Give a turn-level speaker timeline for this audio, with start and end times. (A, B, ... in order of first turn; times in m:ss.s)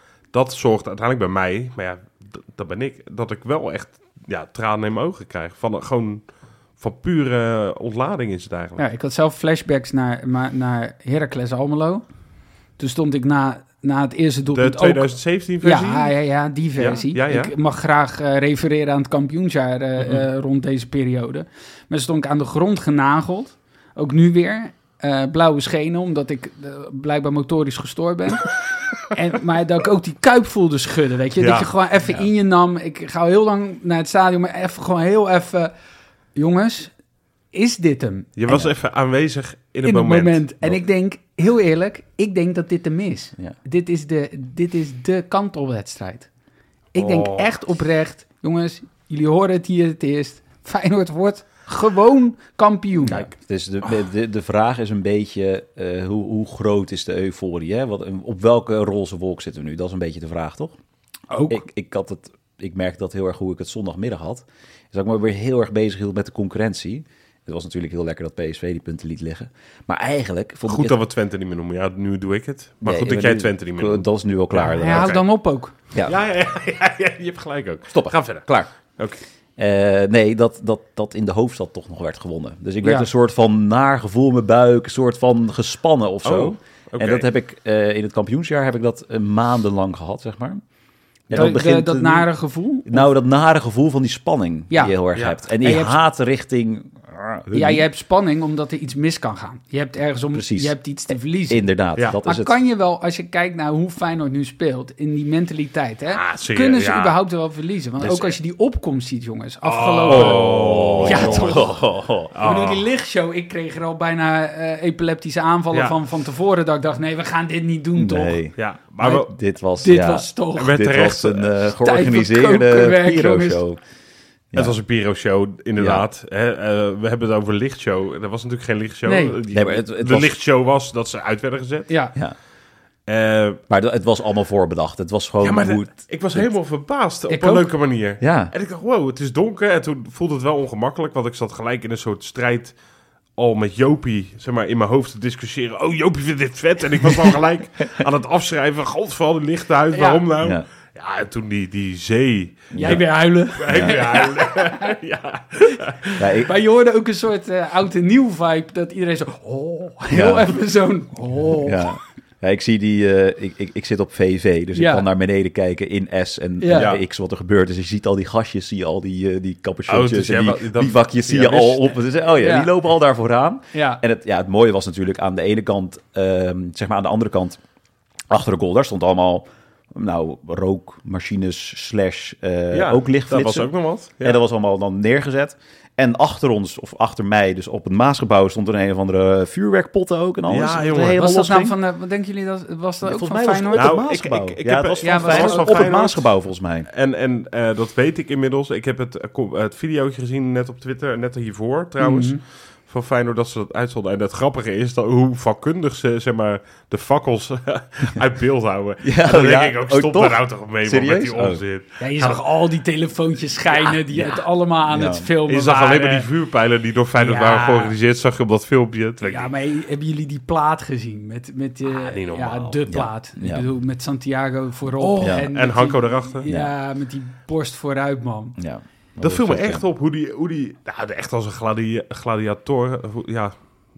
0:00.3-0:08.8 A
0:08.8-0:12.1 B
0:12.8-0:15.1 B
0:14.5-0:16.2 A
0:15.6-0:35.7 B
0:16.8-0:17.5 A
0:31.4-0:31.7 A
0:36.4-0:36.9 B
0:37.5-0:38.3 B
0:38.4-0:40.4 A
0:39.8-0:46.3 B
0:46.9-0:53.3 B
0:47.0-0:47.5 A
0:53.0-1:00.8 C
1:01.3-1:01.6 B
1:01.5-1:11.0 C
1:10.7-1:14.1 A
1:12.8-1:15.2 C
1:14.5-1:15.7 B
1:14.9-1:15.2 A
1:15.9-1:16.2 C
1:16.0-1:19.2 A
1:17.9-1:18.7 C
1:19.6-1:30.6 C
1:22.8-1:23.1 B
1:26.2-1:27.3 A
1:31.3-1:32.3 C
1:31.3-1:33.1 B
1:32.8-1:37.9 C
1:34.7-1:35.0 B
1:35.1-1:35.4 A
1:35.6-1:36.0 B
1:37.5-1:41.6 B
1:40.3-1:40.8 C
1:41.5-1:42.6 C
1:42.2-1:51.8 B
1:46.1-1:47.2 A
1:48.0-1:48.3 A
1:49.6-1:51.7 A
1:50.1-1:52.3 C
1:52.3-1:52.8 A
1:52.3-1:58.4 B
1:55.7-1:56.0 A
1:58.0-2:03.8 C
1:58.6-1:59.3 A
1:59.8-2:00.8 B
2:00.6-2:01.6 A
2:01.8-2:03.6 B
2:04.6-2:11.9 A
2:05.8-2:06.0 C
2:09.1-2:09.4 B
2:09.5-2:10.3 C
2:11.9-2:12.2 B
2:13.1-2:13.6 A
2:13.7-2:16.5 C
2:15.4-2:22.8 A
2:17.3-2:17.7 B
2:18.2-2:18.5 C
2:23.4-2:36.3 A
2:29.9-2:30.2 B
2:30.4-2:30.7 C
2:32.7-2:33.0 C
2:32.8-2:34.9 B
2:33.7-2:34.0 C
2:36.2-2:36.5 C
2:36.4-2:42.0 B
2:40.1-2:40.5 C
2:41.6-2:57.6 C
2:44.7-2:45.1 B
2:46.6-2:46.9 B
2:46.7-2:47.0 A
2:49.9-2:51.9 A
2:52.4-2:52.7 B
2:53.7-2:54.0 B
2:58.3-3:11.8 C
3:02.7-3:04.4 A
3:10.5-3:11.2 A
3:11.2-3:13.9 B
3:13.0-3:16.9 C
3:13.7-3:16.3 A
3:15.0-3:15.8 B
3:16.9-3:32.4 A
3:22.0-3:22.4 B
3:29.0-3:31.6 C
3:32.0-3:36.3 B
3:34.1-3:35.3 C
3:35.5-3:39.5 A
3:37.2-3:38.0 B
3:39.2-3:48.6 B
3:41.9-3:42.8 A
3:42.9-3:43.7 C
3:45.0-3:46.4 A
3:45.2-3:45.5 C
3:46.4-3:46.7 C
3:48.6-3:49.8 C
3:49.2-3:53.6 A